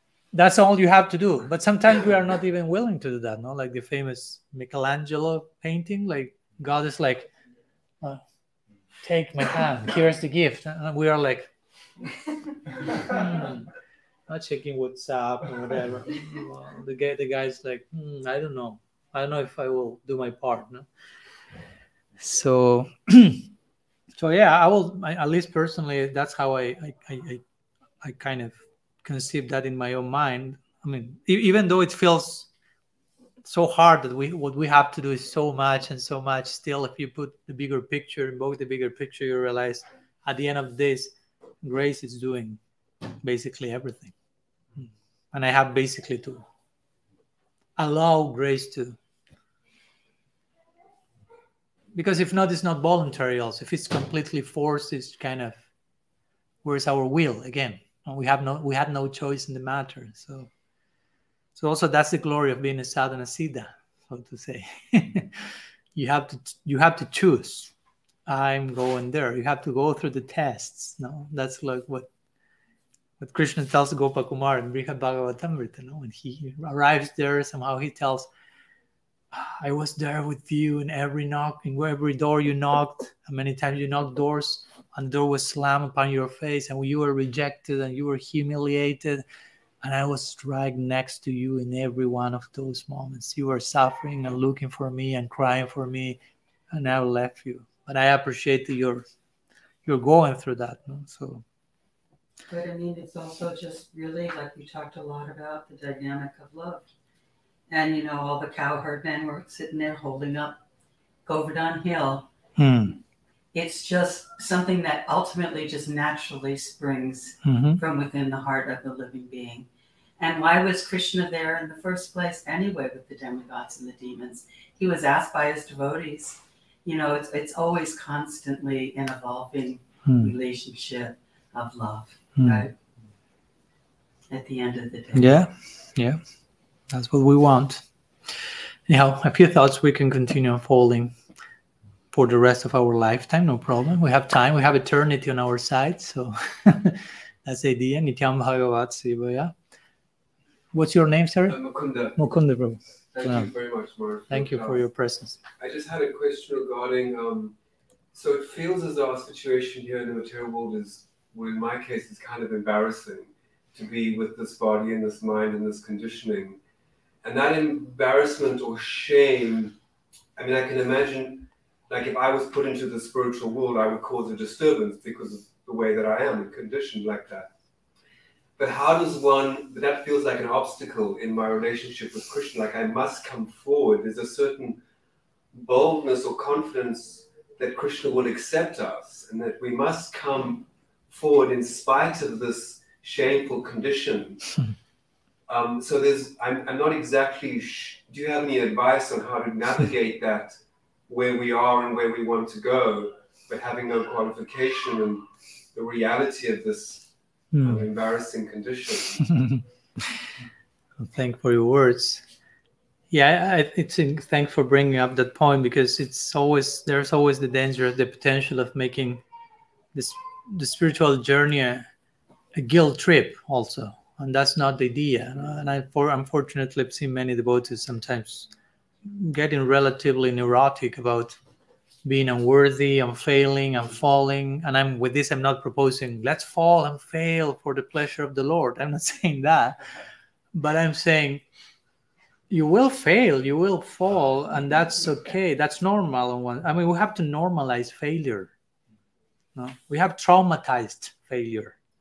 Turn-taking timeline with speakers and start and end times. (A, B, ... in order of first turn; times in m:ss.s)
0:00.3-0:07.3 A
0:09.0-0:11.5 A
0:12.9-0:13.7 A
0:14.3-0:20.9 A
0:22.2-0:23.5 A
0:24.2-0:27.4 A
0:28.0-0:32.5 A
0:33.4-0:42.6 A
0:43.2-0:44.1 A
0:44.8-0:46.4 A
0:47.8-0:49.0 A
0:51.9-0:55.6 A
0:56.6-1:00.5 A
1:01.6-1:07.7 A
1:08.3-1:12.1 A
1:13.2-1:18.3 A
1:19.3-1:29.2 A
1:29.8-1:36.2 A
1:36.7-1:39.0 A
1:39.8-1:41.4 A
1:42.5-1:46.8 B
1:47.7-1:50.6 B
1:51.2-1:52.3 B
1:52.6-1:53.0 A
1:53.5-1:59.7 B
1:57.4-1:57.8 A
2:00.2-2:12.7 B
2:10.0-2:10.3 A
2:12.4-2:12.6 A
2:14.3-2:15.4 B
2:15.1-2:16.2 A
2:16.9-2:17.8 A
2:18.9-2:21.1 A
2:22.1-2:29.5 A
2:30.7-2:31.6 A
2:31.4-2:32.3 C
2:32.1-2:33.5 A
2:33.1-2:34.8 C
2:34.3-2:35.4 A
2:35.6-2:37.6 C
2:38.1-2:46.6 C
2:47.2-2:49.8 C
2:50.4-2:57.5 C
2:58.6-3:04.8 C
3:05.5-3:14.5 C
3:15.5-3:29.3 C
3:27.5-3:27.8 A
3:29.2-3:30.2 A
3:31.0-3:32.2 A
3:33.1-3:39.2 A
3:39.9-3:41.9 A
3:42.5-3:48.5 A
3:49.0-3:51.4 A
3:52.0-3:59.8 A
4:00.5-4:01.4 A
4:02.5-4:08.5 A
4:09.6-4:11.8 A